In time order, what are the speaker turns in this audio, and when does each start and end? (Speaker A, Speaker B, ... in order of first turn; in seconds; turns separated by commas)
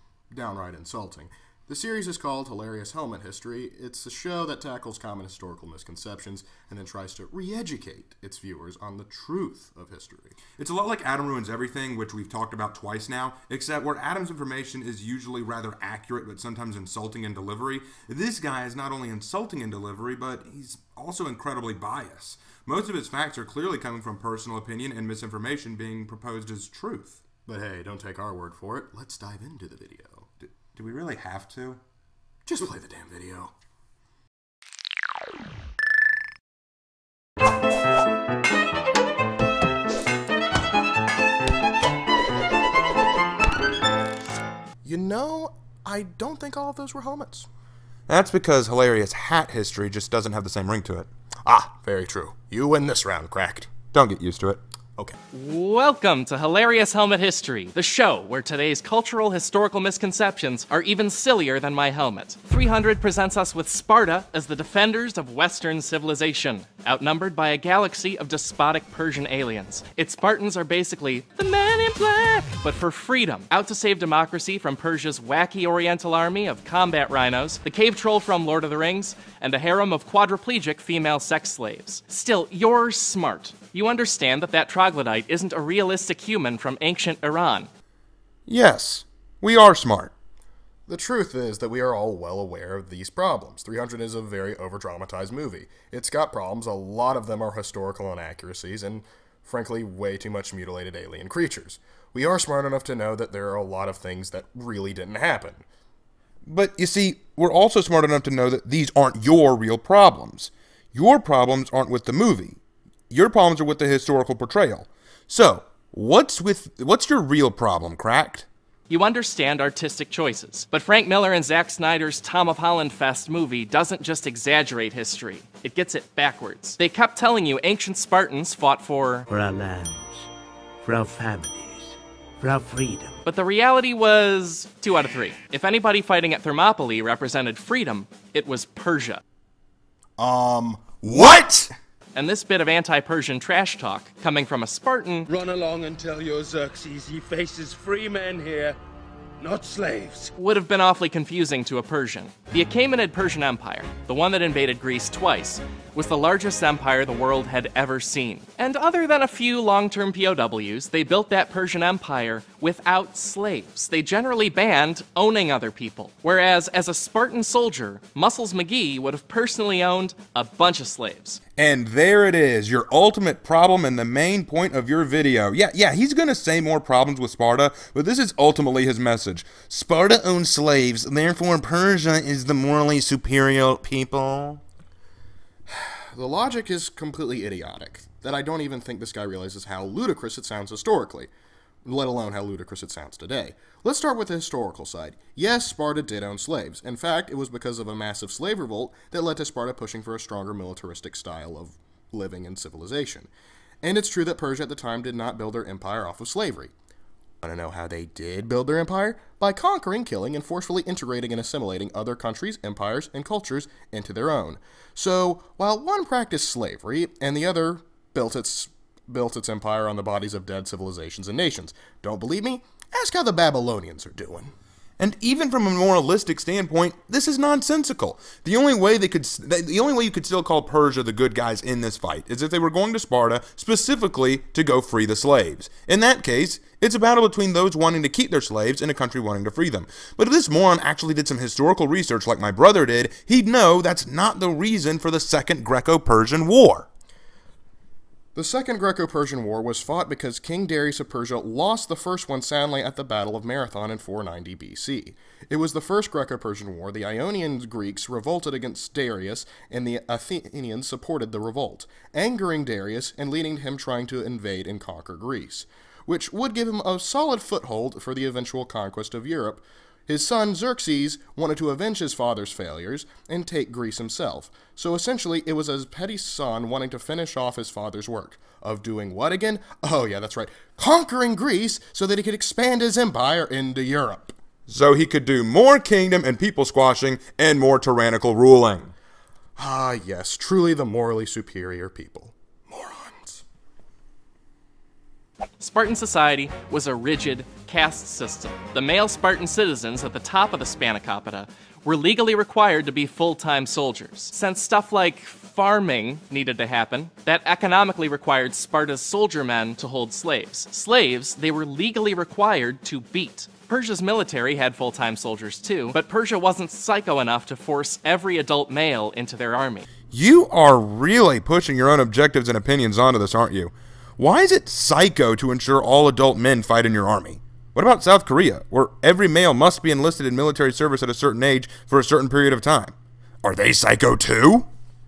Speaker A: 0.3-10.4, Speaker B: 10.6-27.2, Speaker A: 27.4-30.3, Speaker B: 30.4-31.8, Speaker A: 32.5-33.5, Speaker A: 44.8-47.5, Speaker B: 48.1-51.1, Speaker A: 51.4-53.7, Speaker B: 53.9-54.6, Speaker C: 55.3-87.7, Speaker B: 88.5-90.1, Speaker A: 90.9-105.6, Speaker B: 106.4-118.5, Speaker C: 118.9-129.3, Speaker D: 129.3-130.3, Speaker D: 130.8-133.2, Speaker C: 133.2-139.2, Speaker A: 140.2-141.5, Speaker B: 141.0-141.7, Speaker C: 142.1-145.3, Speaker E: 145.3-148.8, Speaker E: 149.4-150.3, Speaker C: 150.4-171.4, Speaker B: 171.6-184.6, Speaker A: 185.7-191.3, Speaker A: 191.8-203.3, Speaker A: 203.8-206.7, Speaker A: 207.4-224.5, Speaker B: 225.0-246.9, Speaker A: 248.3-284.3, Speaker B: 284.7-288.9, Speaker A: 289.6-293.4, Speaker C: 295.6-319.8, Speaker B: 320.1-334.7